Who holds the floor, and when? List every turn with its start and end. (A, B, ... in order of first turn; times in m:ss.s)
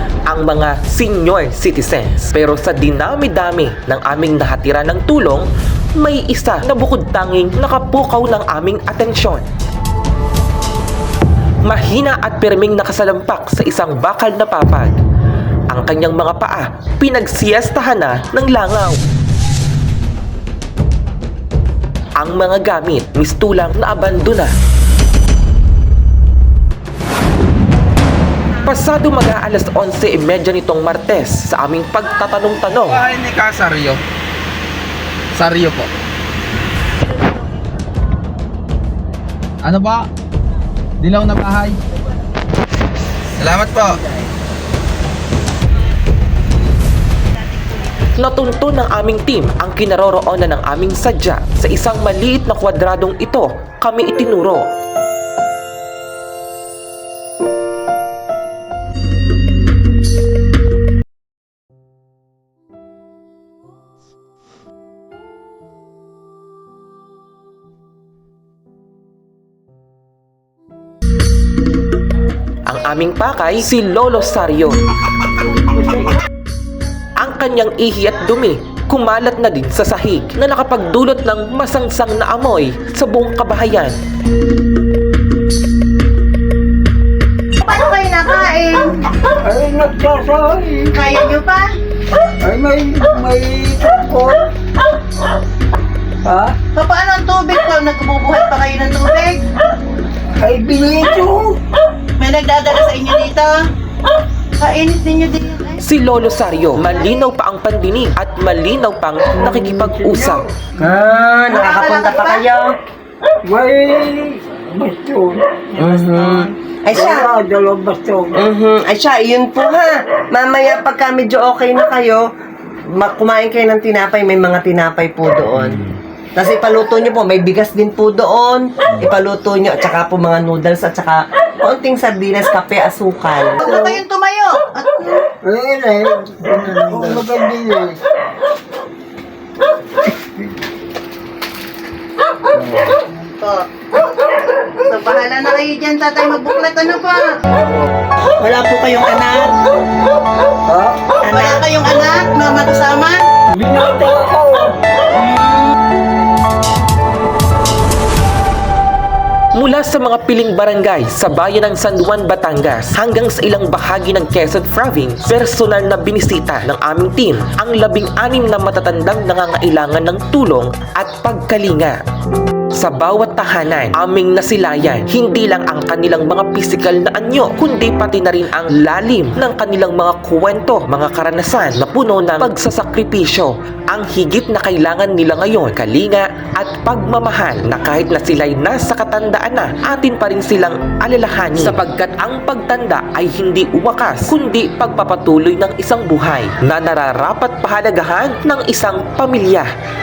0:00.3-0:09.4 A
0:11.6-0:15.0 A
0:15.7-0:19.0 A
0:22.2-0:24.5 A
0:28.6-0:33.0 A
0:32.9-0:34.0 B
0:35.3-0:35.9 B
0:39.6-0:40.1 B
0:41.0-0:41.8 B
0:43.4-0:44.0 B
0:48.2-0:54.7 A
1:12.7-1:14.8 A
1:17.2-1:24.0 A
1:27.6-1:29.1 C
1:29.3-1:30.9 D
1:30.9-1:31.7 C
1:32.2-1:34.5 D
1:36.2-1:36.6 D
1:36.7-1:39.4 C
1:40.3-1:41.6 D
1:42.2-1:43.6 C
1:44.6-1:45.8 C
1:45.8-1:50.4 A
1:49.4-1:50.4 D
1:50.8-1:52.7 E
1:51.5-1:52.4 C
1:53.4-1:58.4 D
1:55.8-1:57.3 E
1:58.3-2:02.2 E
2:02.9-2:13.9 E
2:13.6-2:15.3 C
2:15.4-2:18.0 D
2:23.4-2:23.7 C
2:24.8-2:27.4 C
2:28.4-2:29.6 E
2:30.7-2:31.2 D
2:31.2-2:33.2 C
2:31.3-2:31.6 E
2:33.5-2:34.8 D
2:35.1-2:35.8 C
2:39.5-2:52.0 A
2:52.7-3:19.7 A